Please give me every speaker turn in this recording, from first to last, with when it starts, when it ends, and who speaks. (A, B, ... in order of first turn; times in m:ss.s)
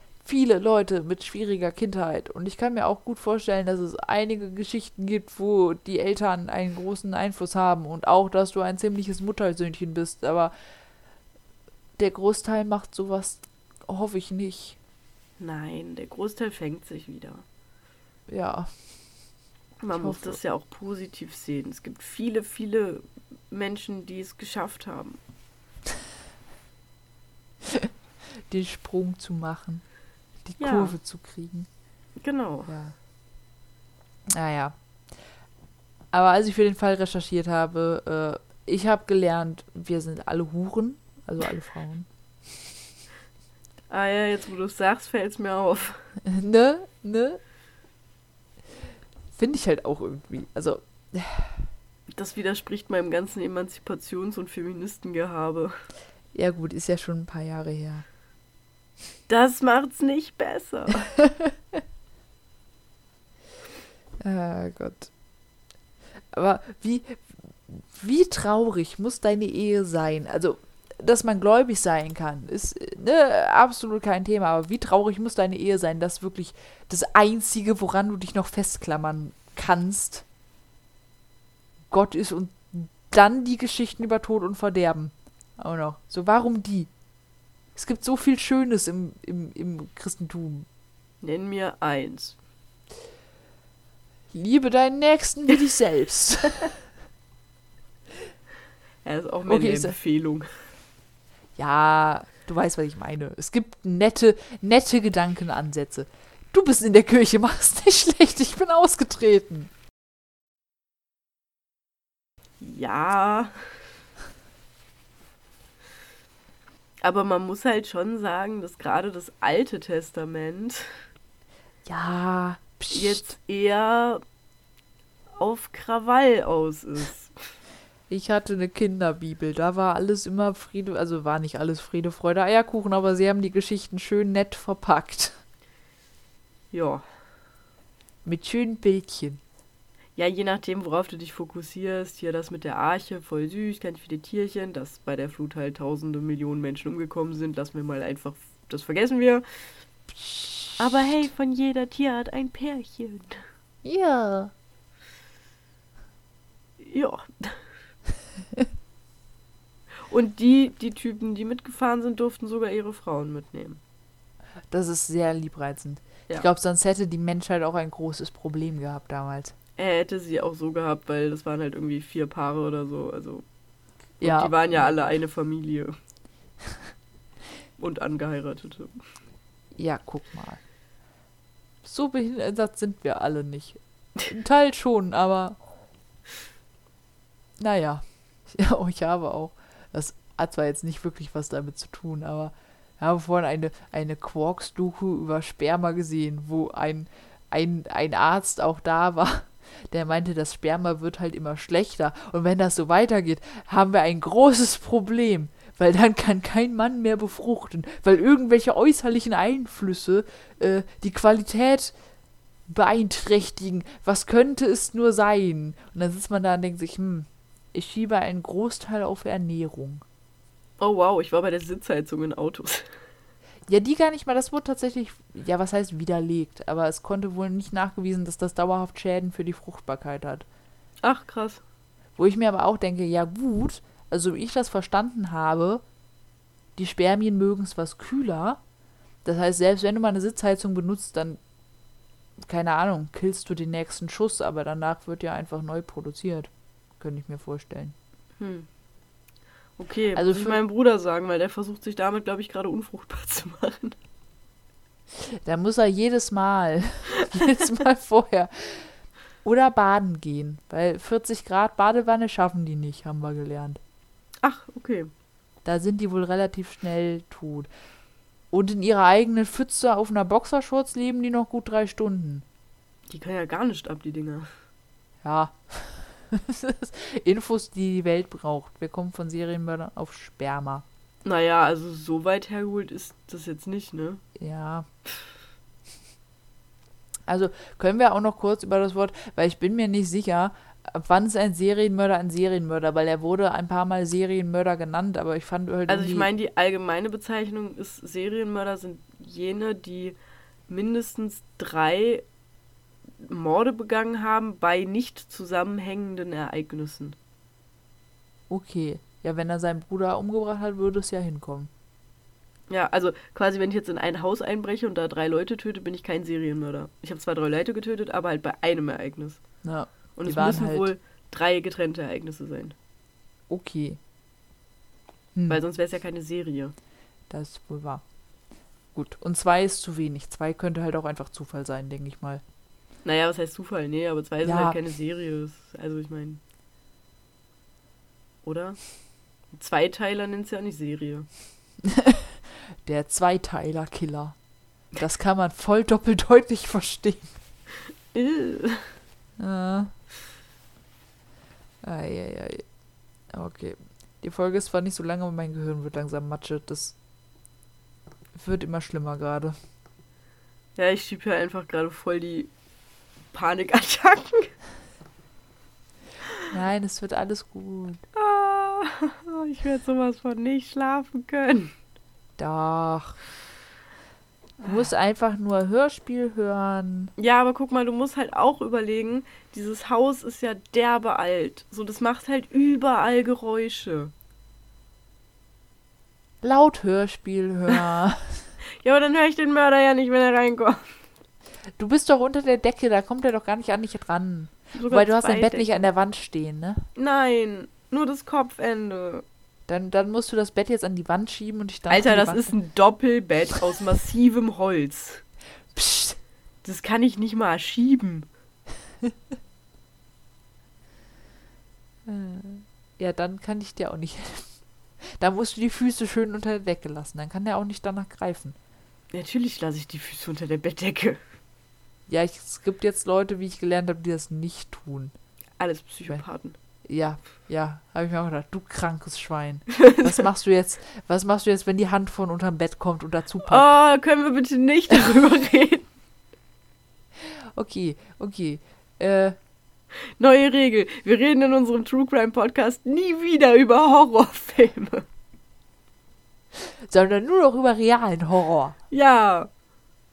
0:00.2-0:10.5 A
0:12.0-0:14.8 A
0:15.4-0:17.4 B
0:18.3-0:18.7 A
0:19.8-0:25.2 B
0:20.0-0:20.4 A
0:27.7-0:27.9 A
0:28.5-0:29.8 A
0:30.4-0:31.7 A
0:30.6-0:30.9 B
0:32.2-0:32.7 B
0:32.7-0:33.0 A
0:34.3-0:34.8 A
0:36.1-0:42.1 A
0:43.9-0:46.1 B
0:46.2-0:47.4 A
0:49.3-0:51.7 A
0:52.1-0:55.8 B
0:56.3-0:58.0 A
0:59.3-1:01.1 B
1:01.2-1:01.5 A
1:04.2-1:05.1 A
1:06.3-1:20.2 A
1:21.9-1:26.9 A
1:27.8-1:30.7 A
1:31.2-1:32.4 B
1:34.3-1:36.8 A
1:39.0-1:40.5 B
1:39.5-1:40.0 A
1:41.6-1:49.7 A
1:52.6-1:53.6 B
1:57.0-2:01.0 B
2:01.8-2:03.4 A
2:02.9-2:04.2 B
2:05.4-2:07.3 B
2:08.1-2:15.4 A
2:16.7-2:17.0 B
2:18.2-2:19.4 A
2:20.2-2:29.4 B
2:30.2-2:30.8 A
2:30.8-2:33.4 B
2:33.8-2:34.5 A
2:36.8-2:37.6 B
2:40.1-2:43.8 B
2:44.7-2:49.6 A
2:49.8-2:53.4 B
2:54.2-2:55.0 A
2:54.2-2:56.0 B
2:57.8-2:59.0 B
2:59.8-3:00.6 A
3:01.8-3:05.6 A
3:07.6-3:32.0 A
3:32.7-3:40.0 A
3:40.8-3:42.9 B
3:43.7-3:50.5 A
3:51.0-3:51.6 B
3:52.2-3:55.8 A
3:56.8-3:58.6 A
3:59.2-4:01.4 A
4:02.4-4:08.0 A
4:08.4-4:08.7 B
4:09.8-4:14.0 B
4:10.2-4:10.6 A
4:15.2-4:23.8 A
4:24.4-4:25.1 B
4:25.6-4:27.7 A
4:28.5-4:32.4 A
4:33.1-4:34.5 B
4:35.2-4:40.8 A
4:41.2-4:44.2 B
4:44.4-4:44.9 A
4:47.3-4:56.3 A
4:55.9-5:00.2 B
5:00.7-5:02.2 B
5:03.2-5:07.2 B
5:08.5-5:11.7 A
5:12.7-5:19.4 B
5:19.6-5:20.9 A
5:20.2-5:22.8 B
5:23.5-5:24.0 A
5:25.5-5:26.7 B
5:27.3-5:28.0 A
5:29.0-5:32.4 A
5:33.0-5:36.4 B
5:34.4-5:34.8 A
5:38.4-5:38.8 B
5:39.5-5:41.3 B
5:41.8-5:44.4 A
5:45.0-5:47.4 A
5:48.1-5:49.0 B
5:49.4-5:49.9 A
5:51.8-5:52.6 A
5:53.3-5:57.0 A
5:58.4-5:59.6 A
6:00.8-6:02.5 B
6:03.3-6:04.5 B
6:06.5-6:08.0 A
6:08.1-6:11.7 B
6:12.4-6:13.2 A
6:14.6-6:17.1 A
6:17.2-6:24.1 B
6:26.4-6:28.5 A
6:28.8-6:31.0 B
6:31.8-6:36.9 A
6:34.8-6:35.8 B
6:37.0-6:39.2 B
6:39.7-6:42.6 A
6:41.9-6:45.2 B
6:45.7-6:46.2 A
6:46.6-6:48.3 B
6:52.1-6:58.6 A
6:59.1-7:01.2 B
7:02.1-7:05.1 A
7:05.6-7:06.6 B
7:06.9-7:13.7 A
7:09.8-7:10.2 B
7:13.4-7:15.9 B
7:17.2-7:19.4 A
7:20.2-7:25.1 B
7:26.9-7:28.8 A
7:28.9-7:29.5 B